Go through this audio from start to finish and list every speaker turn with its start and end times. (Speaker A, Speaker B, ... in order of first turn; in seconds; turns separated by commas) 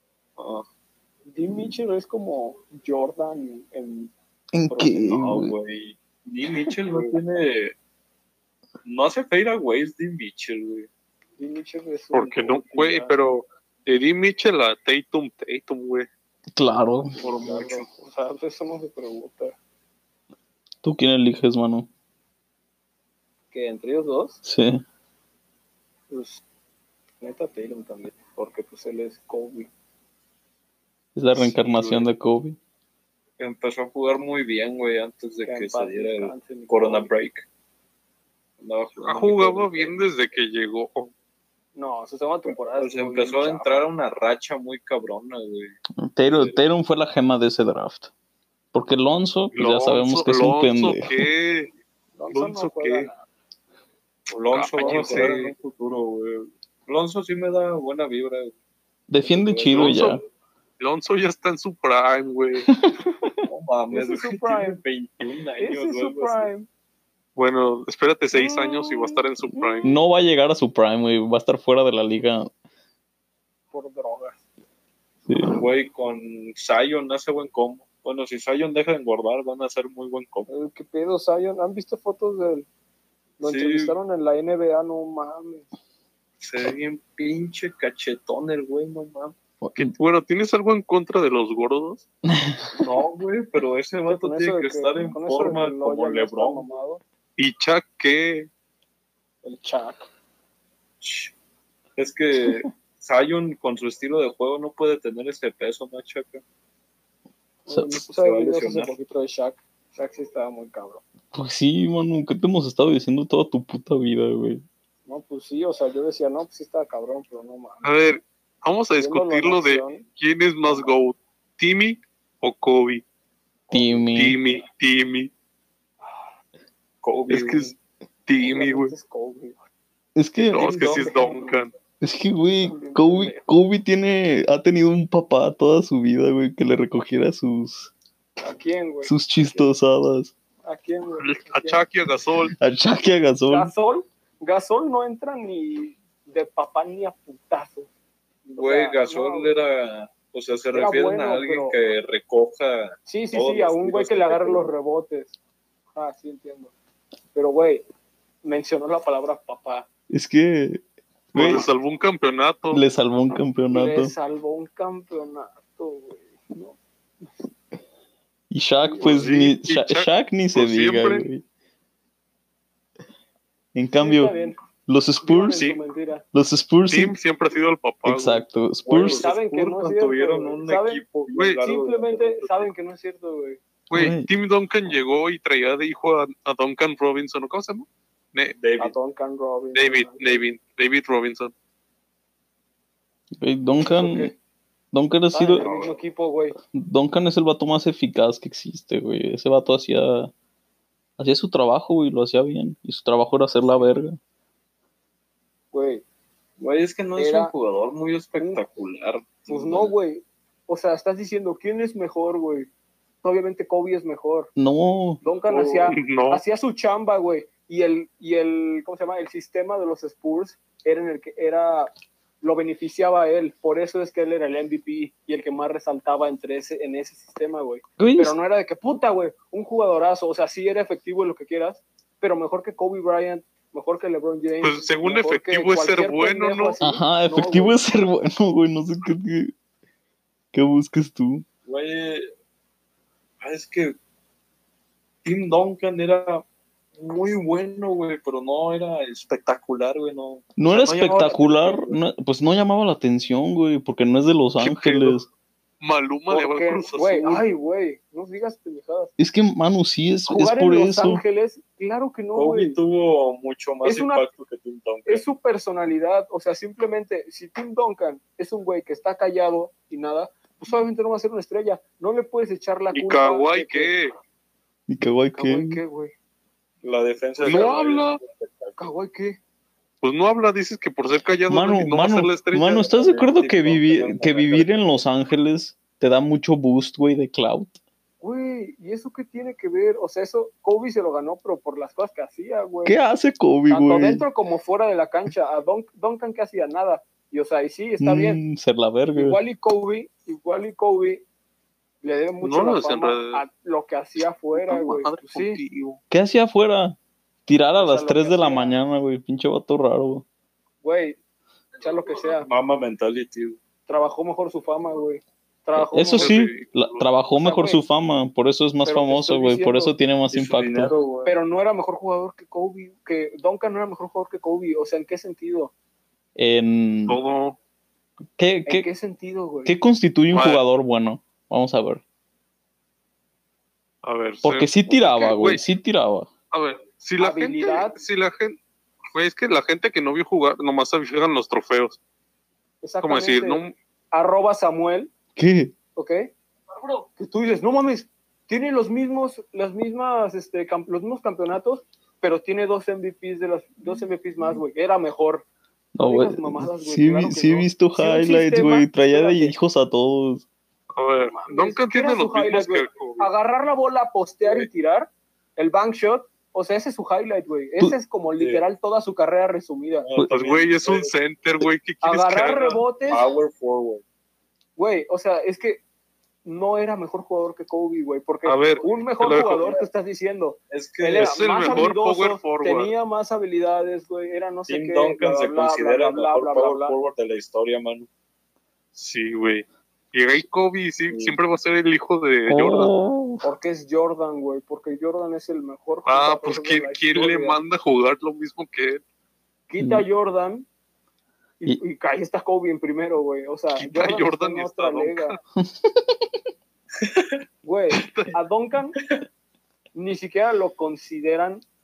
Speaker A: 0.4-0.7, Speaker B: 1.3-4.1, Speaker C: 4.5-5.5, Speaker B: 4.7-5.1, Speaker A: 5.1-7.7, Speaker B: 6.6-7.2, Speaker A: 8.8-10.9, Speaker B: 11.4-13.2, Speaker D: 12.1-16.1, Speaker C: 16.6-17.1, Speaker B: 17.2-19.6, Speaker A: 17.2-17.9, Speaker C: 20.8-21.9, Speaker B: 23.5-24.4, Speaker C: 24.4-24.8, Speaker B: 26.1-26.4, Speaker B: 27.2-29.7, Speaker C: 31.1-32.6, Speaker D: 31.4-32.0, Speaker A: 33.4-37.5, Speaker B: 35.5-37.1, Speaker A: 38.6-40.0, Speaker D: 39.0-41.1, Speaker B: 41.8-43.9, Speaker A: 42.5-46.6, Speaker C: 46.0-48.1, Speaker C: 48.7-51.1, Speaker D: 49.5-51.7, Speaker B: 52.2-53.2, Speaker D: 52.3-53.1, Speaker A: 54.3-58.5, Speaker D: 54.5-55.5, Speaker B: 54.8-55.3, Speaker C: 59.1-60.2, Speaker A: 59.2-60.0, Speaker D: 59.7-60.2, Speaker D: 60.8-62.7, Speaker A: 63.5-66.5, Speaker B: 63.9-64.8, Speaker B: 65.6-66.7, Speaker D: 67.4-69.9, Speaker B: 68.3-69.9, Speaker C: 69.8-72.5, Speaker B: 73.7-74.4, Speaker C: 75.3-75.6, Speaker A: 75.5-80.5, Speaker B: 80.5-82.7, Speaker B: 83.4-85.7, Speaker A: 83.4-84.0, Speaker A: 86.4-89.3, Speaker C: 89.6-89.9, Speaker D: 89.8-92.0, Speaker C: 92.3-92.9, Speaker A: 92.8-96.7, Speaker B: 94.1-97.0, Speaker D: 97.4-98.5, Speaker B: 99.4-100.1, Speaker A: 101.0-101.3, Speaker A: 102.0-106.4, Speaker B: 107.7-111.0, Speaker A: 108.1-109.0, Speaker C: 111.3-114.6, Speaker B: 115.1-117.9, Speaker D: 117.8-123.0, Speaker B: 119.0-120.0, Speaker B: 120.7-120.9, Speaker B: 123.7-124.1, Speaker C: 123.7-124.4, Speaker D: 124.2-125.3, Speaker B: 126.0-126.3, Speaker A: 127.0-127.8, Speaker D: 127.3-127.7, Speaker D: 128.3-128.9, Speaker B: 128.4-129.6, Speaker C: 130.2-130.8, Speaker D: 130.5-131.7, Speaker B: 130.5-131.6, Speaker C: 132.0-137.9, Speaker B: 132.6-133.4, Speaker B: 138.4-139.7, Speaker C: 139.1-140.3, Speaker B: 140.7-141.8, Speaker D: 141.2-142.5, Speaker C: 142.6-143.7, Speaker B: 143.5-147.9, Speaker B: 148.5-149.6, Speaker A: 148.6-154.7, Speaker B: 150.7-151.8, Speaker B: 153.1-155.3, Speaker B: 155.9-156.7, Speaker B: 157.3-157.8, Speaker B: 158.4-159.9, Speaker C: 160.1-160.8, Speaker D: 161.3-162.8, Speaker C: 161.3-161.7, Speaker C: 162.7-164.1, Speaker B: 163.7-166.8, Speaker C: 168.5-171.4, Speaker B: 168.8-169.1, Speaker D: 169.0-171.3, Speaker C: 173.8-175.7, Speaker B: 174.0-174.6, Speaker B: 175.2-176.2, Speaker C: 176.3-177.2, Speaker D: 176.9-178.4, Speaker C: 178.1-179.3, Speaker A: 178.9-182.7, Speaker B: 179.1-181.0, Speaker B: 181.6-183.6, Speaker D: 183.9-188.6, Speaker C: 183.9-184.3, Speaker A: 188.6-188.9, Speaker B: 188.8-190.4, Speaker D: 189.7-191.5, Speaker C: 193.4-194.3, Speaker B: 193.8-194.3, Speaker C: 194.9-195.7, Speaker B: 195.3-196.6, Speaker A: 195.6-196.0, Speaker C: 196.7-200.3, Speaker C: 201.2-204.2, Speaker B: 203.6-204.0, Speaker B: 205.7-206.0, Speaker A: 206.6-209.9, Speaker B: 207.2-207.5, Speaker B: 209.5-212.7, Speaker B: 213.2-214.5, Speaker C: 214.6-215.2, Speaker B: 215.2-221.9, Speaker A: 215.5-215.9, Speaker D: 215.9-216.4, Speaker B: 222.4-237.8, Speaker C: 228.0-228.3, Speaker D: 234.6-236.8, Speaker C: 236.8-239.5, Speaker C: 240.5-241.4, Speaker A: 241.7-242.3, Speaker A: 243.4-244.0, Speaker A: 245.2-246.4, Speaker A: 247.0-252.0, Speaker C: 250.6-255.3, Speaker D: 254.6-255.2, Speaker D: 255.8-257.4, Speaker B: 256.3-259.1, Speaker C: 259.2-261.2, Speaker B: 260.3-262.8, Speaker A: 262.4-265.2, Speaker B: 263.8-264.2, Speaker B: 265.1-273.9, Speaker D: 272.9-274.1, Speaker C: 274.9-275.8, Speaker B: 275.3-276.1, Speaker A: 276.8-278.9, Speaker D: 277.4-278.2, Speaker B: 277.5-277.7, Speaker B: 278.8-279.4, Speaker D: 280.0-282.8, Speaker C: 281.5-287.8, Speaker A: 282.8-284.7, Speaker B: 288.2-293.0, Speaker C: 292.9-294.3, Speaker B: 293.7-298.4, Speaker C: 298.0-299.4, Speaker B: 299.1-301.2, Speaker B: 302.0-305.6, Speaker D: 302.4-303.4, Speaker D: 304.6-306.0, Speaker C: 306.1-310.2, Speaker B: 307.8-308.8, Speaker B: 310.8-311.2, Speaker B: 311.8-312.5, Speaker A: 312.4-313.6, Speaker B: 313.9-316.3, Speaker C: 315.8-320.9, Speaker D: 316.2-317.1, Speaker B: 317.4-317.8, Speaker B: 318.9-319.9, Speaker A: 320.3-321.4, Speaker B: 321.2-325.7, Speaker C: 326.4-327.2, Speaker D: 327.1-327.6, Speaker C: 328.4-328.9, Speaker B: 328.7-329.8, Speaker C: 329.7-332.0, Speaker D: 330.3-330.6, Speaker D: 334.0-335.6, Speaker C: 334.4-336.3, Speaker D: 336.5-338.6, Speaker B: 337.2-338.0, Speaker D: 339.1-342.0, Speaker B: 342.8-343.6, Speaker D: 343.0-343.7, Speaker B: 344.1-345.1, Speaker C: 345.4-345.7, Speaker B: 346.0-346.3, Speaker B: 346.9-355.5, Speaker C: 355.9-360.5, Speaker B: 356.0-359.6, Speaker D: 360.9-363.3, Speaker B: 361.2-370.1, Speaker A: 364.4-364.7, Speaker A: 368.4-368.6, Speaker A: 370.0-371.1, Speaker D: 370.3-372.9, Speaker B: 372.0-373.2, Speaker A: 373.1-374.0, Speaker B: 374.8-375.8, Speaker B: 376.4-387.0, Speaker D: 378.5-379.8, Speaker A: 380.7-381.9, Speaker D: 381.2-382.9, Speaker A: 384.7-388.1, Speaker D: 388.9-392.9, Speaker A: 391.1-391.4, Speaker C: 392.5-393.4, Speaker B: 393.4-397.6, Speaker D: 396.1-399.0, Speaker B: 399.7-400.7, Speaker C: 399.8-400.1, Speaker B: 401.6-405.4, Speaker D: 403.8-405.4, Speaker C: 405.6-406.2, Speaker A: 407.0-407.4, Speaker B: 407.6-409.0, Speaker D: 408.0-408.3, Speaker B: 409.9-411.6